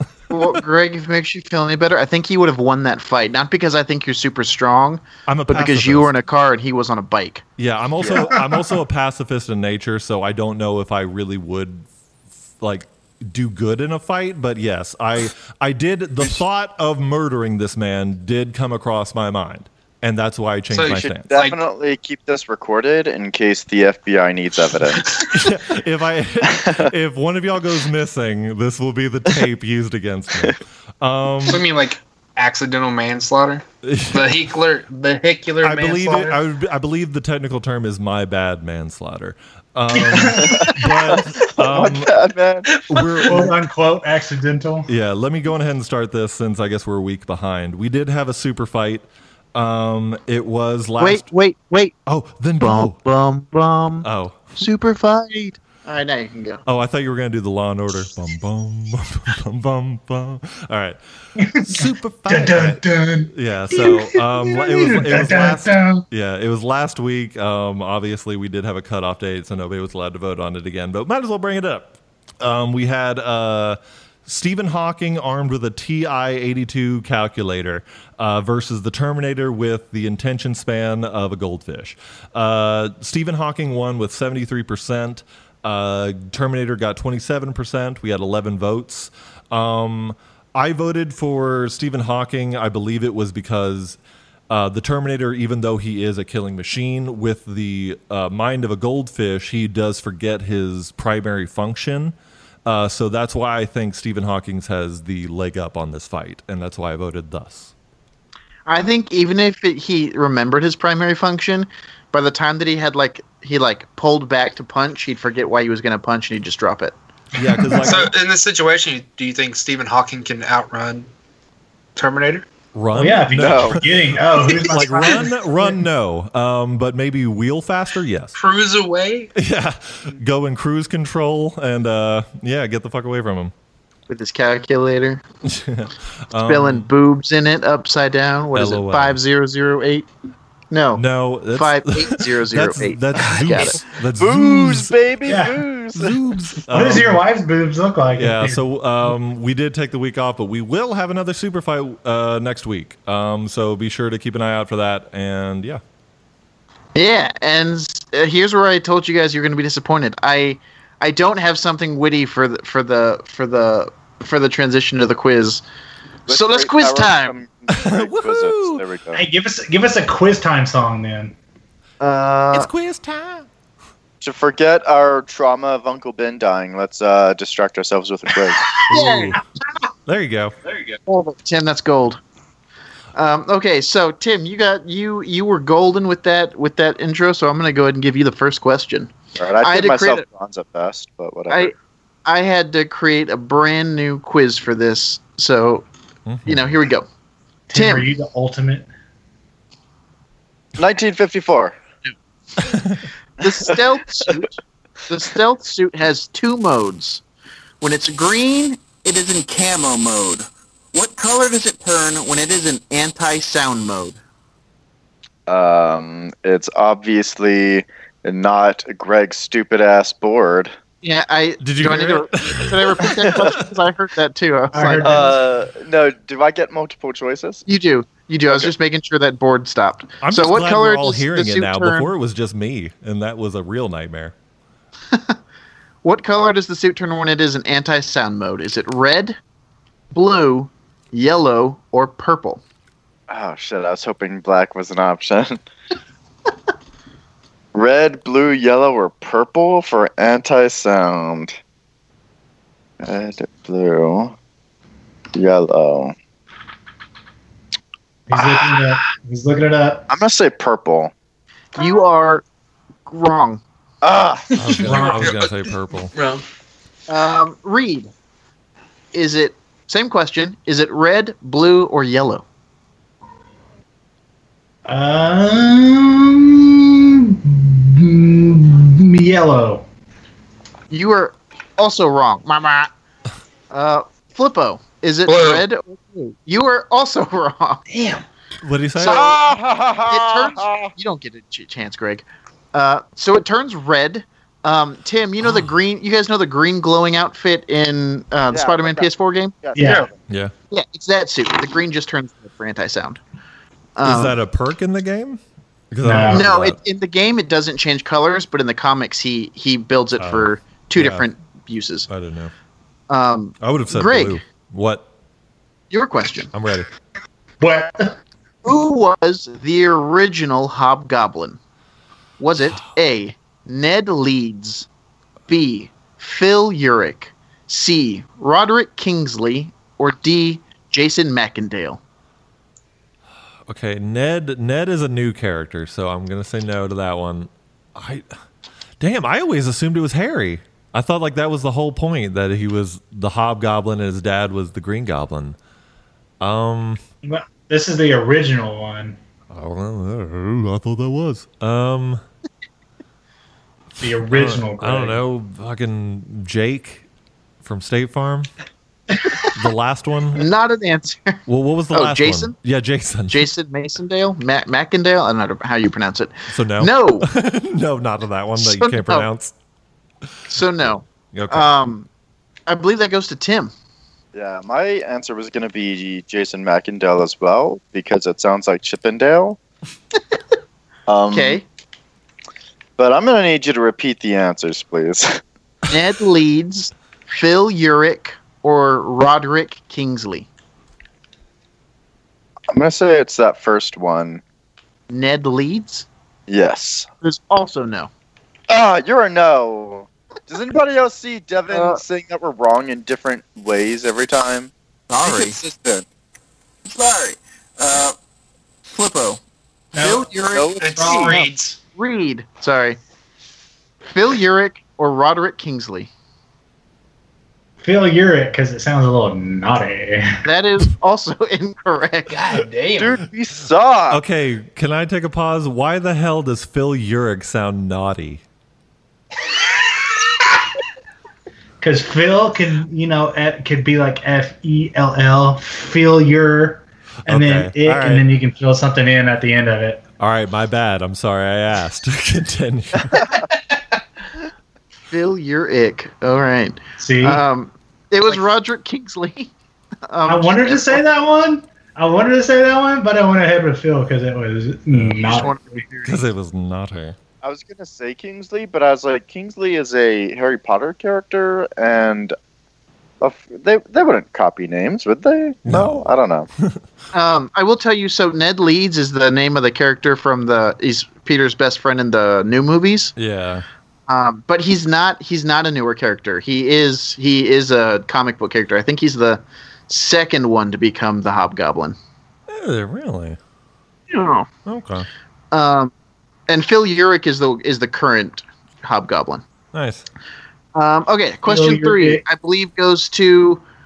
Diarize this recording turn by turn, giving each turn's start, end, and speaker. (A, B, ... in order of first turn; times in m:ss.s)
0:00.3-0:07.4 A
0:05.3-0:06.1 B
0:07.6-0:11.9 B
0:08.0-0:08.3 C
0:08.2-0:08.7 D
0:12.6-0:21.4 B
0:20.7-0:21.6 E
0:21.0-0:25.2 C
0:25.3-0:31.6 B
0:26.6-0:26.9 C
0:31.5-0:36.4 E
0:33.8-0:34.4 B
0:35.6-0:42.1 B
0:39.9-0:41.2 D
0:40.4-0:42.7 C
0:42.7-0:43.2 E
0:42.9-0:43.6 B
0:43.3-0:44.9 D
0:44.9-0:49.0 B
0:49.6-0:51.2 B
0:51.0-0:51.9 A
0:52.1-0:53.0 B
0:52.6-0:54.1 A
0:54.0-0:54.7 B
0:54.6-0:56.6 A
0:56.7-1:01.0 B
1:01.4-1:06.0 D
1:01.5-1:34.0 B
1:34.5-1:42.1 B
1:42.7-1:47.7 B
1:48.7-1:56.9 A
1:57.4-1:58.1 B
1:57.4-1:58.0 D
1:57.8-2:01.1 E
2:02.0-2:02.4 E
2:02.7-2:08.4 B
2:02.9-2:05.8 D
2:03.4-2:03.8 C
2:08.4-2:09.3 E
2:09.4-2:13.5 B
2:14.1-2:15.2 A
2:15.5-2:16.9 B
2:16.5-2:20.1 A
2:18.6-2:19.2 B
2:20.7-2:21.0 A
2:21.0-2:24.9 B
2:21.5-2:23.8 A
2:24.2-2:26.2 C
2:25.2-2:25.6 D
2:26.0-2:27.2 B
2:26.7-2:28.6 D
2:28.2-2:35.8 B
2:37.0-2:45.6 A
2:46.3-2:49.2 C
2:46.3-2:47.4 A
2:47.7-2:48.8 B
2:49.1-2:51.4 D
2:52.0-2:52.7 A
2:52.5-2:53.5 B
2:54.2-2:58.7 C
2:58.9-2:59.4 A
2:58.9-2:59.4 B
3:00.1-3:00.6 B
3:01.1-3:02.2 A
3:03.2-3:09.1 A
3:09.4-3:11.7 C
3:09.6-3:10.2 A
3:11.5-3:11.7 A
3:12.2-3:15.9 A
3:16.3-3:16.6 B
3:16.5-3:17.1 A
3:17.7-3:18.9 D
3:17.7-3:18.1 A
3:20.8-3:21.8 C
3:22.1-3:22.8 A
3:22.7-3:23.0 B
3:23.4-3:24.6 A
3:25.1-3:27.2 A
3:27.8-3:34.2 A
3:35.5-3:40.7 C
3:41.0-3:45.4 A
3:41.6-3:43.6 B
3:43.2-3:43.6 C
3:44.7-3:45.4 D
3:45.0-3:47.6 C
3:47.7-3:52.1 A
3:50.2-3:54.3 B
3:55.1-3:55.4 A
3:56.0-3:59.4 A
4:00.1-4:02.6 A
4:03.3-4:05.6 C
4:07.7-4:11.6 C
4:13.0-4:14.4 C
4:15.4-4:16.2 C
4:18.3-4:20.0 D
4:20.1-4:21.1 C
4:21.8-4:22.4 A
4:23.1-4:23.6 A
4:24.0-4:24.6 C
4:24.6-4:26.1 B
4:24.8-4:26.4 E
4:24.8-4:25.3 D
4:27.1-4:28.1 A
4:29.1-4:32.4 A
4:34.9-4:39.8 D
4:40.9-4:42.9 A
4:43.7-4:47.8 A
4:45.3-4:45.6 E
4:47.9-4:48.2 E
4:48.6-4:49.4 B
4:49.0-4:49.4 A
4:49.0-4:50.9 C
4:50.1-4:59.6 A
4:58.5-5:00.2 C
4:59.8-5:00.1 D
4:59.8-5:00.1 E
5:00.7-5:03.2 A
5:04.0-5:04.4 A
5:04.0-5:05.4 B
5:05.9-5:06.8 B
5:06.0-5:06.5 D
5:06.3-5:12.1 A
5:10.2-5:11.2 B
5:12.1-5:12.5 B
5:13.1-5:14.4 A
5:13.6-5:15.0 B
5:15.9-5:16.5 A
5:16.5-5:16.9 B
5:17.6-5:18.2 D
5:18.6-5:21.6 A
5:22.4-5:24.9 A
5:25.5-5:32.0 A
5:33.7-5:38.3 B
5:39.0-5:45.6 B
5:46.4-5:47.0 B
5:47.2-5:49.2 D
5:49.5-5:52.2 B
5:54.0-5:57.0 B
5:54.0-5:55.2 D
5:57.6-5:58.5 B
5:59.5-6:00.5 B
6:00.4-6:01.4 A
6:01.5-6:03.5 B
6:01.9-6:02.6 A
6:03.3-6:07.3 A
6:06.5-6:09.5 B
6:08.6-6:09.3 A
6:10.5-6:12.1 A
6:11.3-6:11.7 B
6:12.7-6:13.7 A
6:14.3-6:19.6 C
6:21.1-6:21.6 C
6:21.3-6:21.6 A
6:23.0-6:25.4 C
6:25.9-6:30.5 A
6:32.7-6:34.4 C
6:35.1-6:36.1 A
6:36.5-6:37.1 C
6:37.2-6:38.1 A
6:38.7-6:44.7 C
6:41.7-6:42.0 A
6:45.1-6:45.6 A
6:45.2-6:46.1 C
6:46.9-6:48.1 A
6:48.9-6:49.4 A
6:49.9-6:50.3 D
6:50.0-6:53.0 A
6:50.5-6:51.4 C
6:50.8-6:51.8 E
6:50.9-6:51.5 D
6:54.1-6:56.1 A
6:57.8-7:00.4 D
7:00.4-7:02.4 A
7:02.3-7:03.2 E
7:03.0-7:04.2 C
7:04.1-7:08.4 B
7:11.8-7:20.0 D
7:17.3-7:18.3 B
7:20.2-7:23.3 B
7:23.2-7:23.8 E
7:25.1-7:29.5 A
7:27.0-7:27.4 D
7:30.1-7:31.0 A
7:30.3-7:35.6 D
7:34.9-7:35.2 B
7:35.2-7:36.3 A
7:36.0-7:37.2 B
7:37.4-7:42.4 C
7:43.2-7:46.5 C
7:45.7-7:46.8 B
7:47.1-7:53.1 A
7:53.2-7:53.6 B
7:54.1-8:02.0 A
8:02.5-8:03.4 B
8:04.1-8:04.5 A
8:04.7-8:05.1 B
8:05.5-8:05.9 A
8:06.5-8:09.4 A
8:09.7-8:10.1 B
8:10.8-8:13.6 A
8:11.5-8:12.2 D